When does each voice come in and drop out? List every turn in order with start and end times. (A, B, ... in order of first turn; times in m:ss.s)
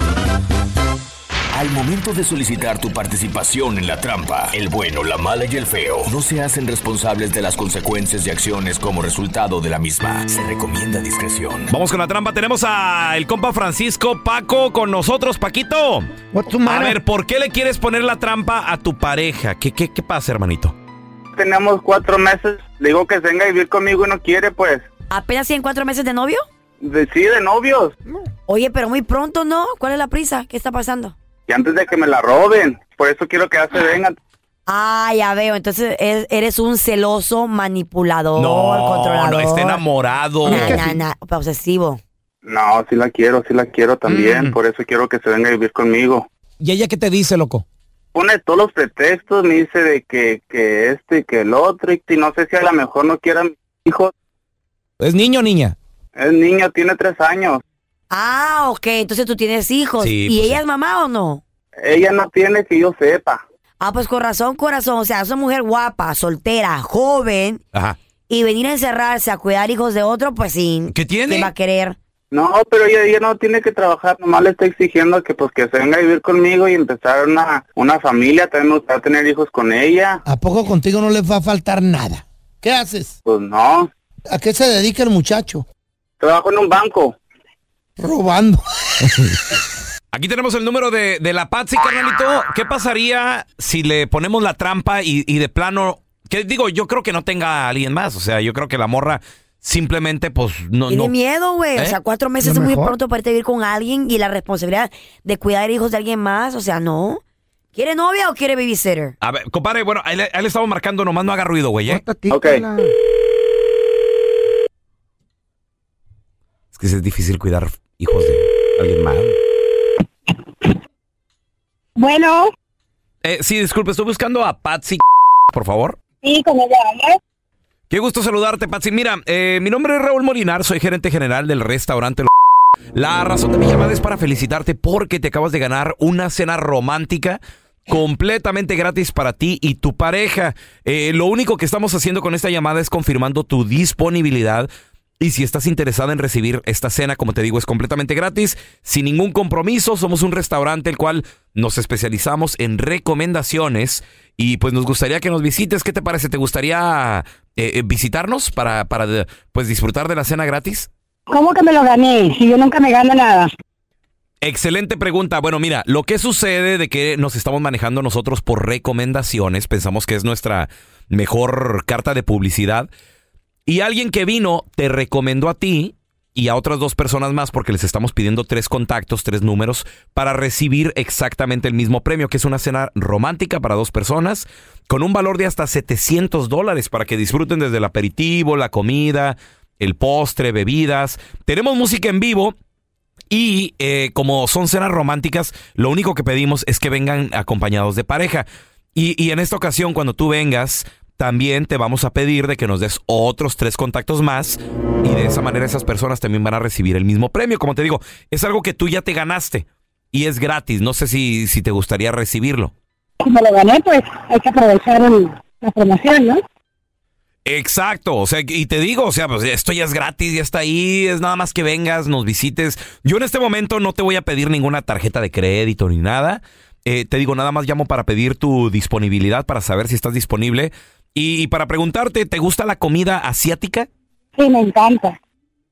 0:01.5-0:11.7 A
0:11.7-0:16.1 B
0:16.3-0:17.0 C
0:16.6-0:20.7 B
0:21.4-0:24.8 D
0:25.1-0:26.4 E
0:26.8-0:27.9 D
0:28.5-0:31.1 E
0:31.5-0:34.2 D
0:34.7-0:39.8 E
0:38.4-0:40.8 B
0:40.4-0:41.0 C
0:40.4-0:42.0 E
0:42.4-0:46.3 D
0:44.1-0:44.5 C
0:46.6-0:47.6 B
0:48.1-0:54.1 D
0:55.0-0:55.8 B
0:56.2-0:57.6 D
0:58.1-1:01.4 E
1:00.0-1:00.6 B
1:01.8-1:03.4 D
1:03.8-1:07.6 E
1:08.3-1:12.0 E
1:10.9-1:11.5 B
1:12.3-1:20.2 D
1:20.2-1:23.1 C
1:23.2-1:23.9 D
1:24.3-1:25.6 C
1:26.2-1:27.2 D
1:28.0-1:28.6 C
1:30.1-1:41.1 B
1:40.9-1:47.2 E
1:42.4-1:43.0 C
1:47.7-1:49.1 E
1:49.2-1:52.0 B
1:51.9-1:52.9 C
1:52.3-1:52.6 D
1:56.7-1:59.4 B
2:02.0-2:02.5 F
2:03.2-2:05.0 B
2:05.5-2:06.0 B
2:06.2-2:07.2 F
2:07.9-2:12.3 B
2:12.9-2:24.7 B
2:25.2-2:40.9 B
2:41.3-2:43.5 F
2:44.4-2:52.9 B
2:53.7-3:12.5 B
3:13.3-3:32.7 B
3:33.2-3:36.4 F
3:37.4-3:53.9 B
3:54.4-3:55.2 F